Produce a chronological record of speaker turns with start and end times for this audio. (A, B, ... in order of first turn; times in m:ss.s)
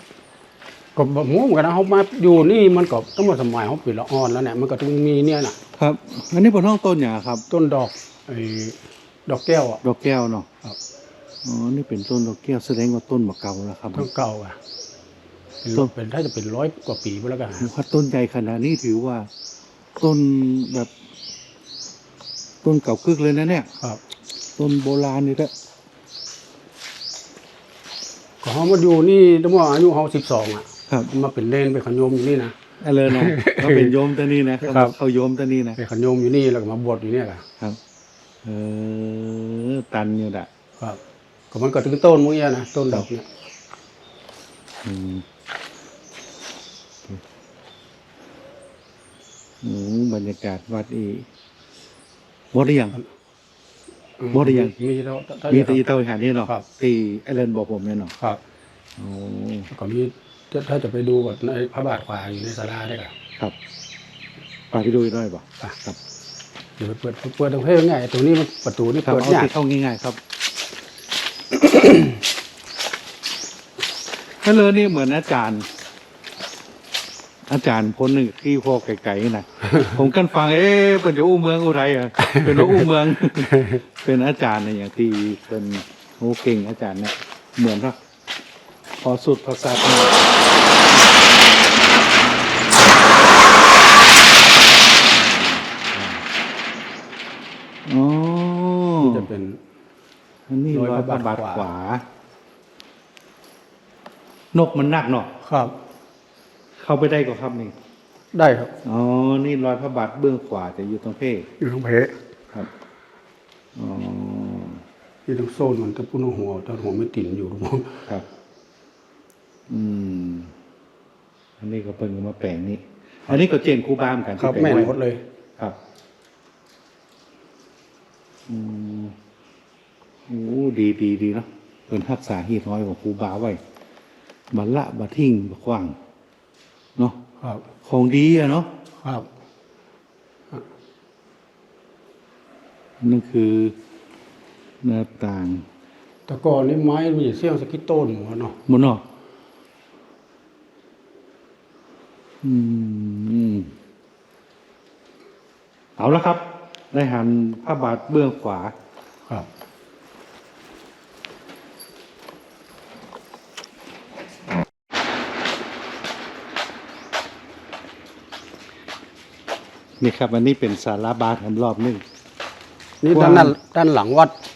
0:01.0-0:05.6 A
0:05.8-0:07.4 B
0:07.5-0:09.8 A
0:09.8-0:10.5 B
0:11.4-0:14.1 B
0:13.9-0:14.6 A
0:15.6-0:17.7 A
0:17.6-0:19.3 B
0:20.0-0:20.9 B
0:22.6-0:23.7 B
0:24.6-0:25.5 B
0:28.4-0:32.6 A
0:32.8-0:35.8 B
0:33.1-0:33.9 A
0:34.6-0:34.9 A
0:35.8-0:37.4 A
0:38.4-0:40.5 B
0:41.5-0:43.3 A
0:44.8-0:45.2 B
0:49.6-0:51.3 B
0:52.5-0:53.0 B
0:54.2-0:55.8 A
0:54.3-0:54.7 B
0:55.5-0:58.1 B
0:59.0-0:59.7 B
0:59.7-1:03.1 A
1:04.7-1:06.0 B
1:06.8-1:09.5 A
1:09.0-1:10.2 B
1:11.6-1:12.2 A
1:14.4-1:15.7 B
1:17.5-1:28.0 B
1:22.2-1:23.8 A
1:29.0-1:30.3 B
1:30.8-1:31.3 B
1:35.1-1:36.2 B
1:37.9-1:39.3 B
1:39.0-1:39.6 A
1:40.5-1:42.0 B
1:40.7-1:41.7 A
1:44.5-1:45.3 B
1:45.4-1:45.7 A
1:46.8-1:47.7 B
1:48.3-1:48.7 A
1:48.8-1:51.5 B
1:51.6-1:52.2 A
1:53.8-1:54.8 B
1:55.3-1:58.0 A
1:59.7-2:00.5 B
2:01.6-2:04.9 B
2:04.4-2:05.2 A
2:08.5-2:09.2 B
2:10.3-2:13.6 B
2:14.5-2:16.0 B
2:17.8-2:18.7 B
2:19.0-2:19.3 A
2:23.0-2:23.8 B
2:24.8-2:25.7 B
2:26.3-2:28.6 A
2:28.7-2:29.0 B
2:32.4-2:33.7 B
2:36.0-2:38.7 B
2:50.0-2:52.0 B
2:53.0-2:54.3 A
2:53.1-2:53.6 B